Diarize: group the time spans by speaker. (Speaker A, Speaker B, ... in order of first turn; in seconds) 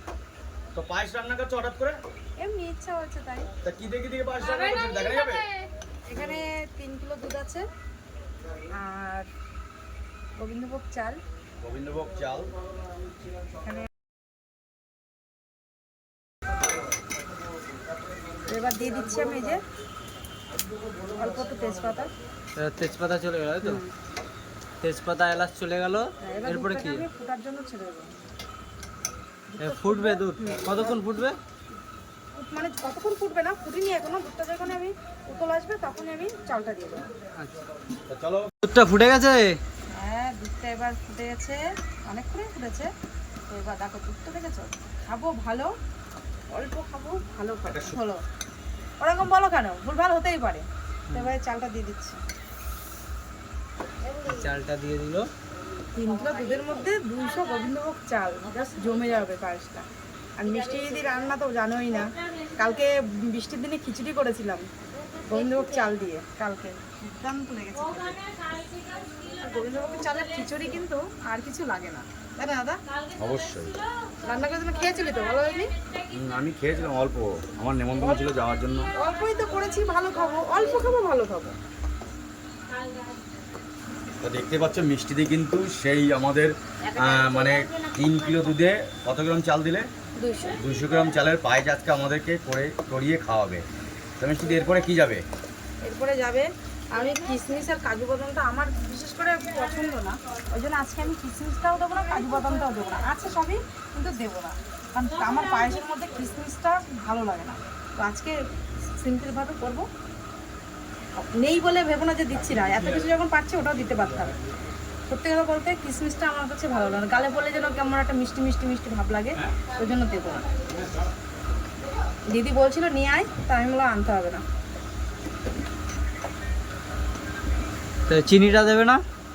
Speaker A: 0.7-2.0, 3.6-5.5, 11.6-12.5, 38.1-38.5, 47.7-48.0, 73.2-73.8, 76.1-78.9, 84.2-89.9, 90.5-93.7, 94.2-95.2
Speaker B: 2.4-3.5, 6.1-7.7, 8.7-9.3, 10.4-11.2, 18.5-19.6, 21.2-22.1, 23.6-23.9, 26.2-28.1, 29.5-31.0, 32.4-37.1, 39.9-42.9, 43.5-45.7, 46.5-48.2, 49.0-52.2, 56.0-64.7, 65.2-68.3, 69.3-72.8, 74.2-75.7, 78.0-78.3, 78.9-81.6, 90.2-90.6, 95.8-108.4, 109.0-109.9, 111.2-114.3, 115.1-120.5, 122.3-124.4
Speaker C: 22.6-23.8, 24.8-27.1, 29.6-31.4, 38.6-39.6, 51.1-51.4, 54.2-55.3, 128.1-129.0